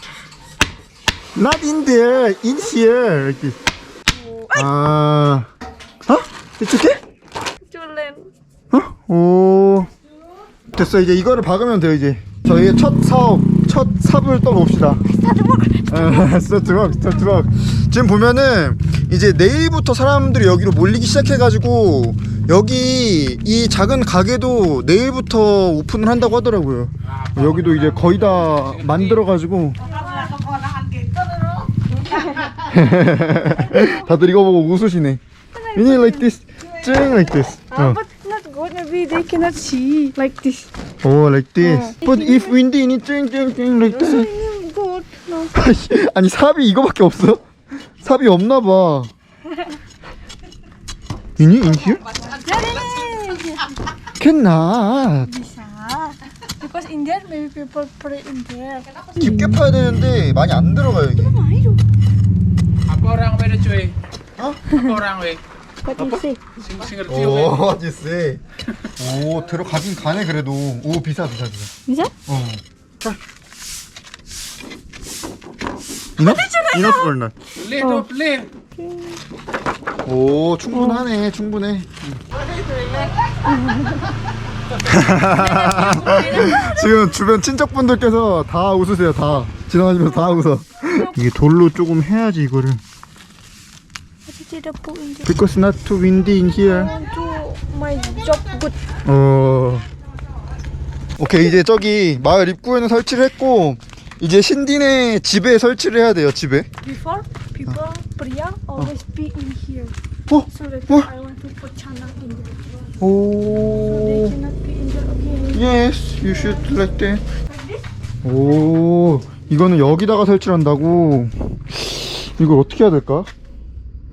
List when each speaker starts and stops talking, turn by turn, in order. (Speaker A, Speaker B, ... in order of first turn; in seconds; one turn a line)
Speaker A: 1.3-3.6
Speaker B: 4.2-4.7
Speaker A: 4.5-5.5
Speaker A: 6.0-7.0
Speaker B: 7.7-8.3
Speaker A: 8.7-9.9
Speaker A: 10.7-15.0
Speaker B: 15.1-17.0
Speaker A: 15.9-29.8
Speaker B: 30.0-30.4
Speaker B: 32.0-32.5
Speaker A: 32.5-35.2
Speaker B: 33.7-34.0
Speaker B: 35.5-36.9
Speaker A: 35.7-38.0
Speaker B: 37.7-40.7
Speaker A: 41.0-44.3
Speaker B: 41.6-42.6
Speaker B: 43.9-45.5
Speaker A: 45.5-47.4
Speaker A: 48.0-49.1
Speaker A: 51.4-52.0
Speaker B: 52.3-53.7
Speaker A: 54.2-55.3
Speaker B: 55.2-59.0
Speaker A: 59.1-61.4
Speaker B: 61.1-61.8
Speaker C: 62.9-63.9
Speaker B: 64.7-65.0
Speaker C: 64.9-65.4
Speaker B: 65.8-66.4
Speaker C: 66.6-67.1
Speaker A: 67.0-68.4
Speaker A: 69.0-71.7
Speaker B: 71.9-72.1
Speaker A: 72.3-73.2
Speaker A: 76.2-77.3
Speaker B: 76.2-77.1
Speaker B: 77.6-79.2
Speaker C: 77.7-78.5
Speaker A: 80.0-82.2
Speaker B: 80.7-81.0
Speaker B: 83.4-84.0
Speaker A: 84.8-92.8
Speaker B: 85.3-87.0
Speaker B: 94.3-95.3
Speaker A: 95.2-96.9
Speaker B: 96.6-98.8
Speaker A: 99.0-99.9
Speaker A: 101.2-106.7
Speaker B: 106.8-110.0
Speaker A: 110.3-111.1
Speaker B: 110.5-112.6
Speaker A: 113.0-114.4
Speaker B: 113.8-115.6
Speaker A: 115.5-117.2
Speaker A: 118.2-123.3